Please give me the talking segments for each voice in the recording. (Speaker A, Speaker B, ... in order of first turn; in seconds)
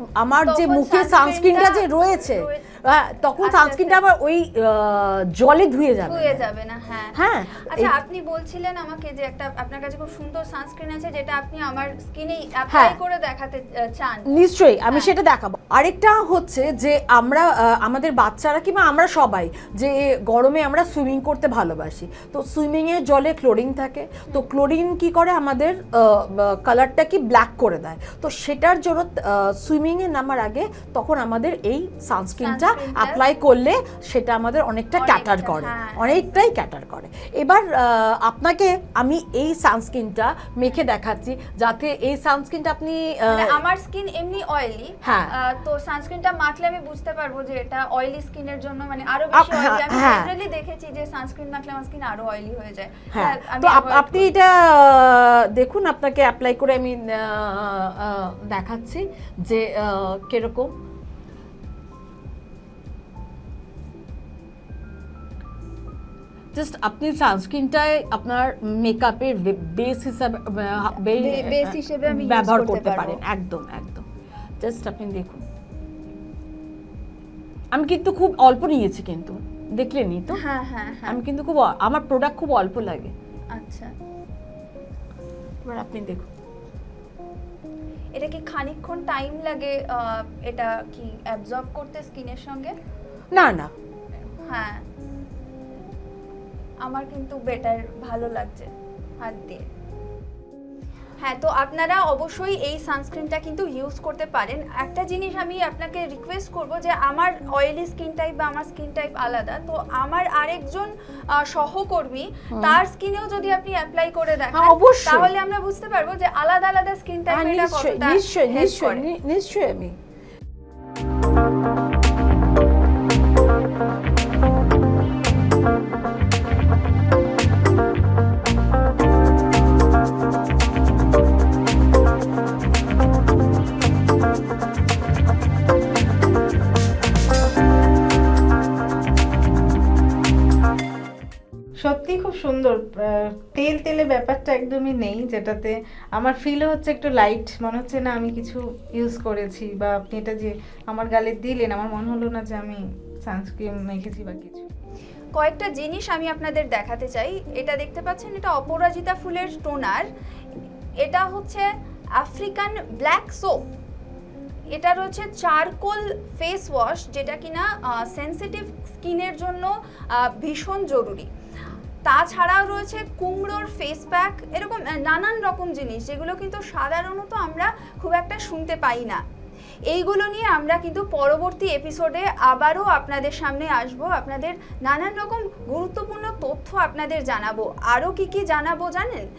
Speaker A: 0.2-6.5, 7.1-7.9, 12.7-13.0, 14.2-43.6, 45.0-45.3, 49.3-50.3, 53.1-60.7, 66.5-74.1, 74.6-75.4, 77.7-80.4, 81.0-83.1, 85.7-86.3, 93.3-93.7, 112.5-112.8, 114.5-115.3, 117.3-119.9
Speaker B: 0.5-2.7, 3.3-4.0, 6.0-14.3, 32.4-33.2, 34.9-36.4, 43.3-54.3, 70.8-73.2, 80.3-81.2, 83.5-83.9, 88.2-92.7, 94.5-94.8, 96.8-99.7, 101.2-119.0, 155.3-160.1, 161.0-161.7, 162.2-163.6, 164.7-171.3, 172.1-179.2, 179.9-189.2
Speaker C: 141.8-154.7